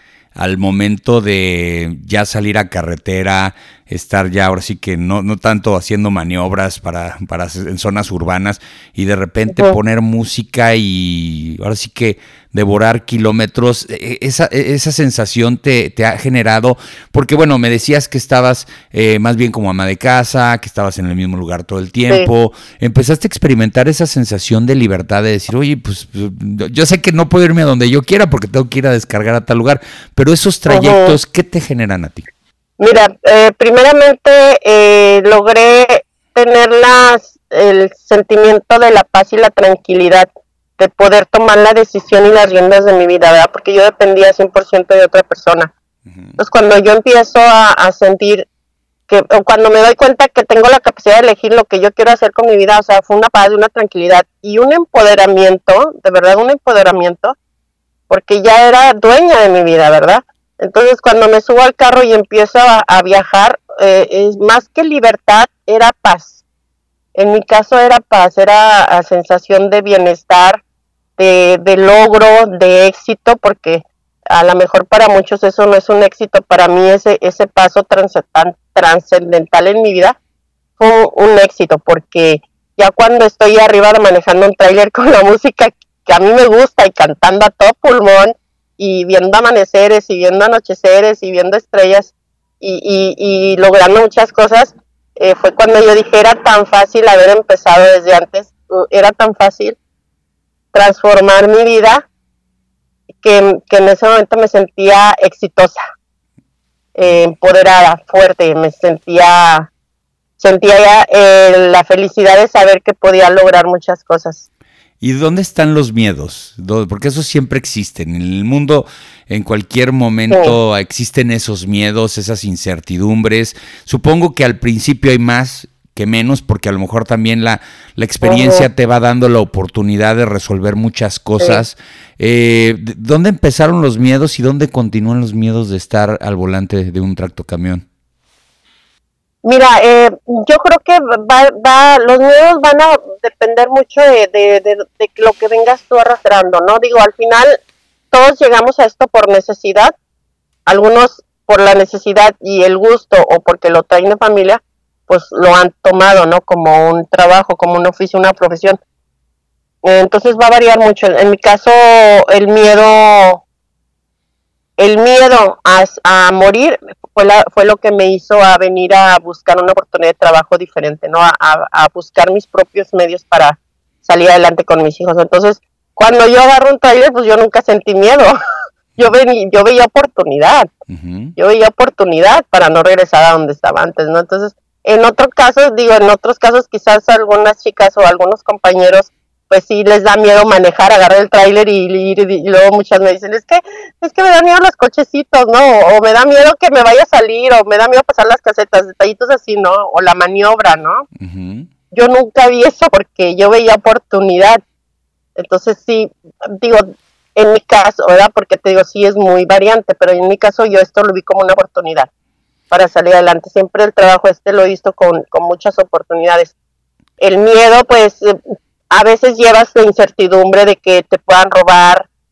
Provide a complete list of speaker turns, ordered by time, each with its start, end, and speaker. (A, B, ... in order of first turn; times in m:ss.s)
0:00.4-0:32.3 A
0:09.5-0:09.8 B
0:30.7-0:31.2 B
0:32.8-0:45.7 B
0:46.1-0:46.4 A
0:46.4-0:48.5 B
0:49.1-0:57.3 B
0:58.1-1:06.4 B
1:07.1-1:10.6 B
1:11.2-1:20.2 B
1:20.8-1:39.8 B
1:40.7-1:42.0 B
1:43.2-1:45.8 B
1:46.9-1:49.7 B
1:50.4-1:54.4 B
1:55.0-2:17.8 A
2:00.3-2:00.6 B
2:08.2-2:08.6 B
2:19.4-2:27.6 B
2:28.1-2:29.9 B
2:30.7-2:38.8 B
2:39.8-2:43.4 B
2:44.8-2:58.4 B
2:59.0-3:00.7 B
3:00.9-3:01.3 A
3:01.4-3:21.0 B
3:21.2-3:21.7 A
3:21.9-3:24.6 B
3:25.4-3:32.1 B
3:32.7-3:36.5 B
3:37.2-3:38.4 B
3:38.9-3:42.1 B